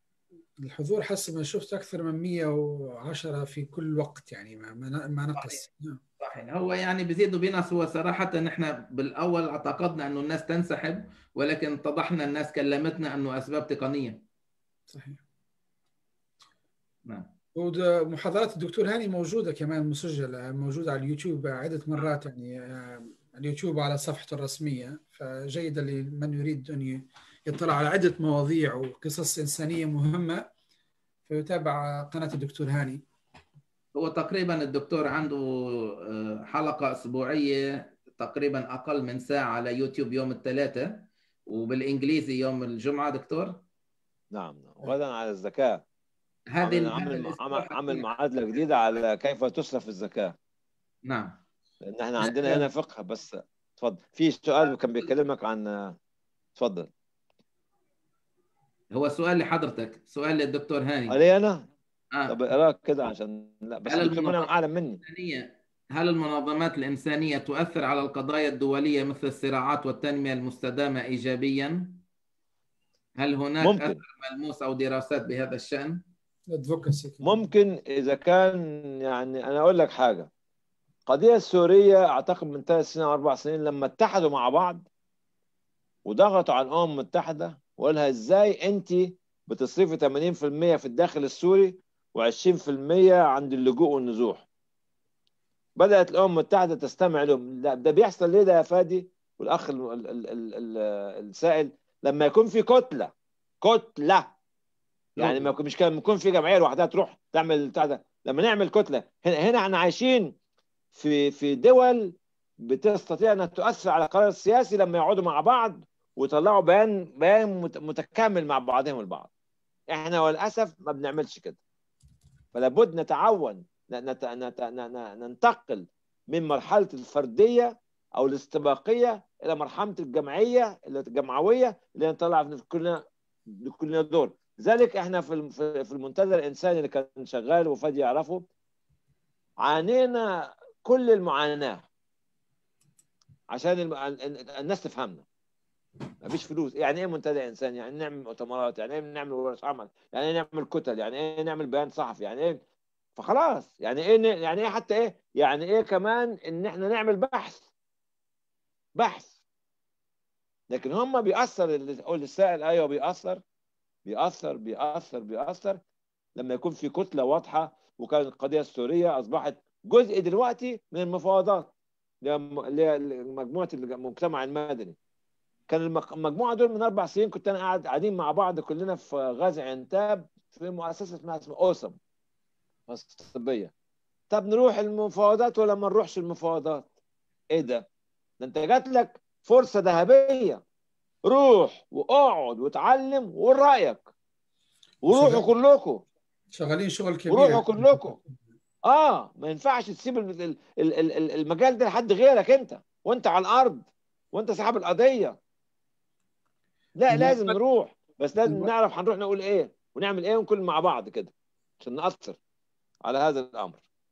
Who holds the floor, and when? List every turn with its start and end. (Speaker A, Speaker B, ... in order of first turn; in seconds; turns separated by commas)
Speaker A: 0.6-6.0, Speaker B: 6.2-14.2, Speaker A: 14.9-15.2, Speaker A: 17.6-30.4, Speaker A: 31.3-33.0, Speaker B: 34.0-35.5, Speaker B: 36.0-43.6, Speaker C: 44.3-45.8, Speaker B: 46.5-48.1, Speaker C: 46.6-50.4, Speaker B: 51.1-51.4, Speaker C: 51.8-56.0, Speaker A: 52.4-52.6, Speaker C: 56.6-56.9, Speaker B: 58.9-61.2, Speaker C: 61.1-61.7, Speaker C: 62.3-65.0, Speaker B: 63.9-64.5, Speaker B: 65.0-72.0, Speaker B: 73.2-76.0, Speaker C: 73.6-74.0, Speaker A: 76.5-77.5, Speaker C: 77.2-80.3, Speaker C: 81.1-84.9, Speaker C: 86.1-94.5, Speaker C: 95.8-104.3, Speaker C: 105.2-110.3, Speaker C: 111.0-119.3, Speaker C: 119.9-121.6, Speaker C: 122.5-133.0, Speaker C: 133.6-138.5, Speaker C: 139.6-141.9, Speaker C: 143.5-145.2, Speaker C: 146.2-152.6, Speaker C: 153.2-157.7, Speaker C: 159.0-159.3, Speaker C: 160.7-163.4, Speaker C: 164.1-165.8, Speaker C: 166.4-171.7, Speaker C: 172.2-175.0, Speaker C: 175.7-182.0, Speaker C: 182.9-183.7, Speaker C: 184.3-186.9, Speaker C: 187.5-187.9, Speaker C: 188.4-190.6, Speaker C: 191.3-194.1, Speaker C: 195.0-196.0, Speaker A: 195.1-195.4, Speaker A: 196.5-198.2, Speaker C: 197.3-198.2, Speaker C: 198.9-205.4, Speaker C: 207.0-212.4, Speaker A: 207.1-207.5, Speaker C: 213.1-213.8